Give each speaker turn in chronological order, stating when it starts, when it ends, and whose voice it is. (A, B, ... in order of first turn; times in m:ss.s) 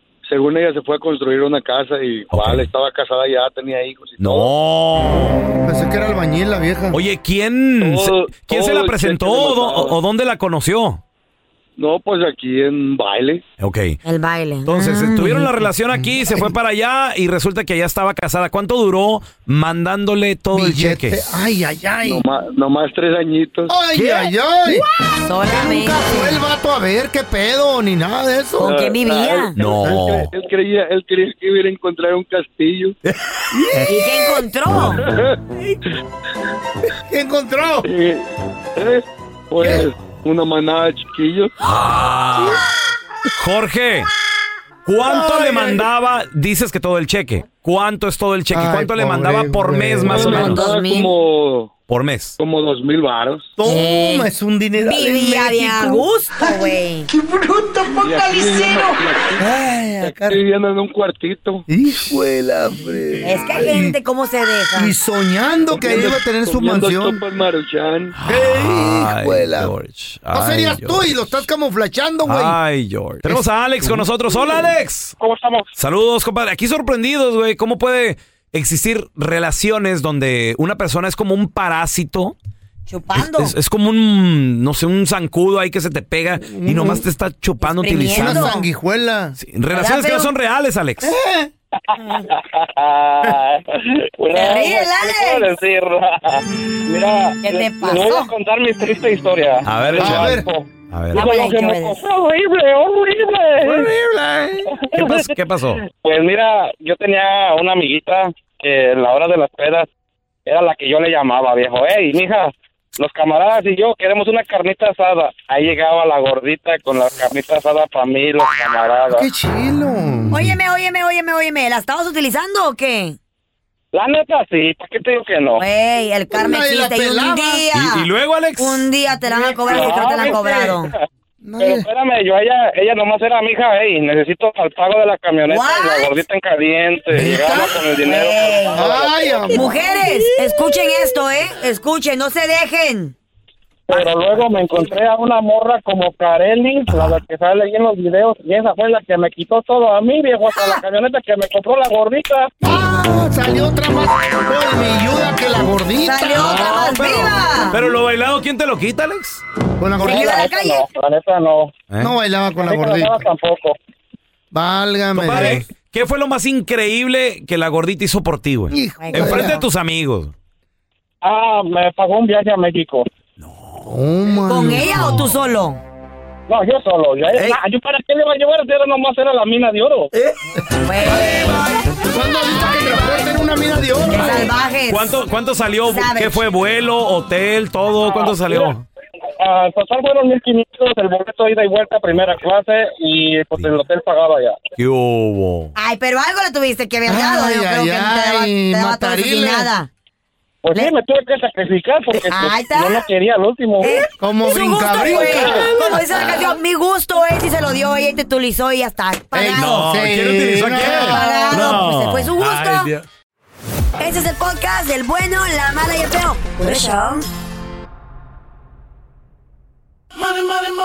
0:00.3-0:04.5 A
0:02.3-0:02.7 B
0:04.2-0:05.4 B
0:05.6-0:07.0 C
0:06.9-0:11.0 B
0:07.8-0:10.0 A
0:11.8-0:13.4 A
0:13.6-0:14.0 B
0:14.0-0:15.5 D
0:14.7-0:21.2 B
0:15.9-0:16.5 C
0:20.5-0:22.2 C
0:22.0-0:23.7 A
0:23.7-0:24.9 C
0:24.0-0:24.3 B
0:25.2-0:26.4 D
0:25.4-0:28.7 C
0:28.6-0:29.6 D
0:28.6-0:33.0 A
0:29.6-0:30.3 B
0:33.5-0:34.6 C
0:33.9-0:35.0 D
0:35.1-0:35.4 A
0:37.0-0:37.9 C
0:37.8-0:41.6 A
0:39.6-0:39.9 C
0:41.6-0:42.7 B
0:42.4-0:42.7 C
0:43.4-0:44.1 B
0:44.9-0:50.6 B
0:45.0-0:45.8 C
0:48.5-0:50.6 C
0:50.1-0:51.7 A
0:50.1-0:51.1 D
0:51.9-0:52.4 B
0:52.4-0:53.5 A
0:53.6-0:56.6 C
0:53.7-0:57.1 D
0:57.1-1:00.4 C
0:58.0-1:01.7 A
1:01.7-1:04.0 C
1:03.2-1:05.0 D
1:04.8-1:07.2 C
1:05.7-1:08.2 A
1:08.2-1:11.4 B
1:08.2-1:09.7 C
1:10.3-1:12.6 C
1:12.3-1:15.2 B
1:13.2-1:14.7 C
1:15.2-1:15.7 E
1:15.8-1:22.4 B
1:22.9-1:23.5 D
1:23.2-1:28.6 B
1:26.4-1:27.0 C
1:27.6-1:28.6 D
1:28.1-1:29.4 C
1:29.4-1:31.1 B
1:29.7-1:30.3 D
1:31.0-1:31.5 C
1:32.0-1:32.3 D
1:32.3-1:43.9 E
1:34.3-1:35.5 D
1:37.4-1:38.3 D
1:39.6-1:40.4 B
1:40.0-1:40.5 C
1:40.9-1:41.3 B
1:41.1-1:42.0 D
1:43.6-1:44.7 C
1:44.8-1:45.3 E
1:45.0-1:45.8 B
1:45.8-1:49.9 E
1:50.5-1:59.3 E
1:59.1-2:00.6 C
2:00.3-2:03.2 D
2:03.9-2:05.6 E
2:05.6-2:10.9 D
2:06.3-2:07.6 C
2:07.7-2:08.9 B
2:09.5-2:10.9 E
2:11.4-2:11.9 C
2:11.6-2:19.1 E
2:15.5-2:16.1 D
2:17.1-2:17.9 C
2:17.9-2:18.9 D
2:18.7-2:20.2 C
2:19.5-2:23.2 D
2:23.9-2:32.5 E
2:26.9-2:27.2 B
2:32.6-2:36.6 C
2:36.0-2:37.8 D
2:36.3-2:39.4 B
2:39.8-2:40.5 C
2:40.0-2:41.8 E
2:40.0-2:40.9 D
2:42.0-2:43.2 C
2:42.6-2:43.8 E
2:44.5-2:45.6 C
2:45.2-2:50.3 B
2:48.7-2:49.6 C
2:49.0-2:49.6 D
2:51.2-2:53.1 E
2:53.8-2:55.2 C
2:54.5-2:55.8 D
2:56.5-3:00.1 E
3:00.8-3:01.9 D
3:01.1-3:01.5 C
3:02.0-3:04.5 C
3:04.0-3:05.1 D
3:04.9-3:08.8 B
3:05.9-3:06.5 D
3:08.1-3:08.7 E
3:09.4-3:14.6 E
3:14.8-3:15.7 B
3:15.8-3:19.9 D
3:17.1-3:19.7 C
3:20.6-3:24.0 E
3:22.2-3:23.1 D
3:23.8-3:29.8 D
3:24.2-3:26.6 C
3:25.1-3:25.6 E
3:29.3-3:31.2 C
3:29.6-3:33.0 B
3:30.8-3:32.9 D
3:34.0-3:37.3 D